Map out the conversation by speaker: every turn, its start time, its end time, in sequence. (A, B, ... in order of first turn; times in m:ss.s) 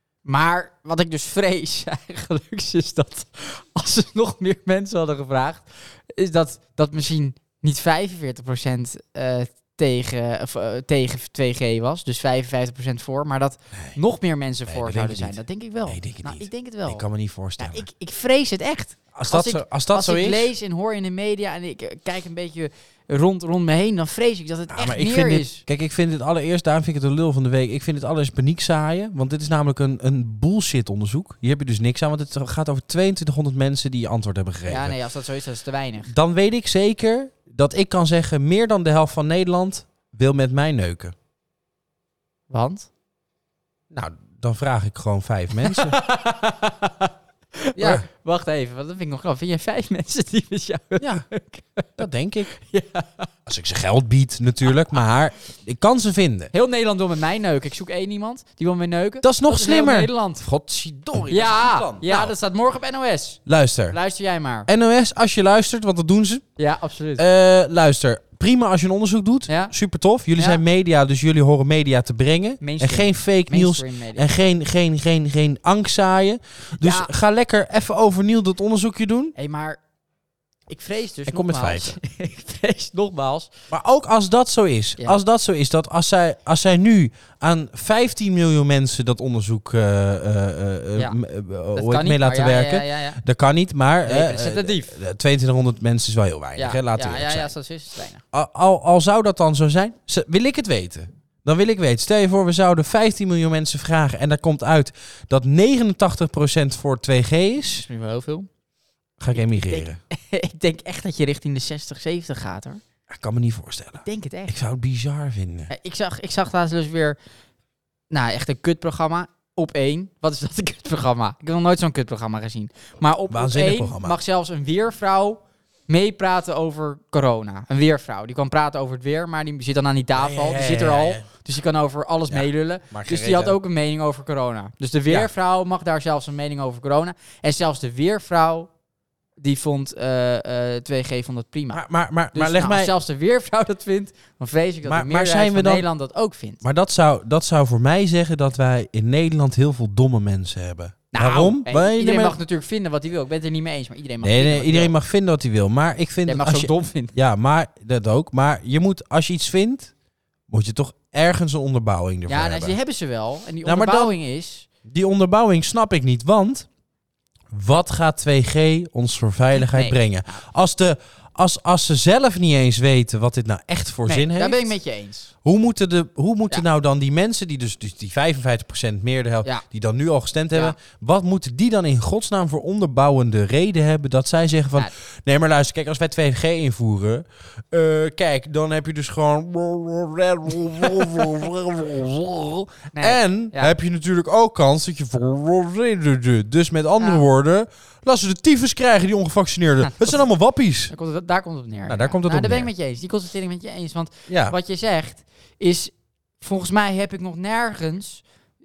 0:00.2-0:17.0 A
0:14.7-0:17.9 B
0:17.6-0:25.6 A
0:19.1-0:20.5 B
0:24.7-0:35.0 B
0:34.7-0:36.1 A
0:36.1-0:41.2 B
0:42.5-0:42.9 A
0:43.9-0:46.0 B
0:45.6-0:51.9 A
0:47.8-0:48.0 B
0:51.0-0:51.3 B
0:52.0-0:52.5 B
0:52.5-0:53.3 A
0:53.5-0:56.5 B
0:56.5-1:00.4 A
0:59.2-1:02.3 B
1:01.3-1:04.7 A
1:03.5-1:04.0 B
1:04.7-1:06.5 B
1:06.6-1:07.2 A
1:07.2-1:19.3 B
1:09.5-1:09.7 A
1:10.4-1:10.6 A
1:12.6-1:14.3 A
1:16.8-1:17.1 A
1:19.4-1:19.8 A
1:20.7-1:23.5 A
1:21.3-1:22.0 B
1:23.7-1:37.5 B
1:31.8-1:33.2 A
1:34.0-1:34.9 A
1:36.6-1:38.2 A
1:38.3-1:47.9 B
1:47.7-1:48.5 A
1:49.2-1:50.0 B
1:49.3-1:52.8 A
1:53.1-1:55.7 B
1:54.0-1:54.5 A
1:55.7-1:57.2 A
1:58.1-2:18.7 A
2:03.3-2:04.2 B
2:10.1-2:11.3 B
2:12.3-2:13.6 B
2:19.4-2:21.8 A
2:21.7-2:22.9 B
2:22.3-2:26.6 A
2:24.8-2:25.9 B
2:26.6-2:32.4 B
2:31.1-2:34.9 A
2:34.2-2:39.9 B
2:36.3-2:37.1 A
2:40.5-2:42.8 B
2:42.3-2:44.7 A
2:43.6-2:44.2 B
2:44.8-2:46.7 B
2:47.5-2:54.8 B
2:49.6-2:50.4 A
2:54.1-2:55.3 A
2:55.4-3:20.9 B
3:12.9-3:13.7 A
3:17.0-3:17.2 A
3:20.9-3:28.2 A
3:21.9-3:22.7 B
3:24.3-3:24.6 B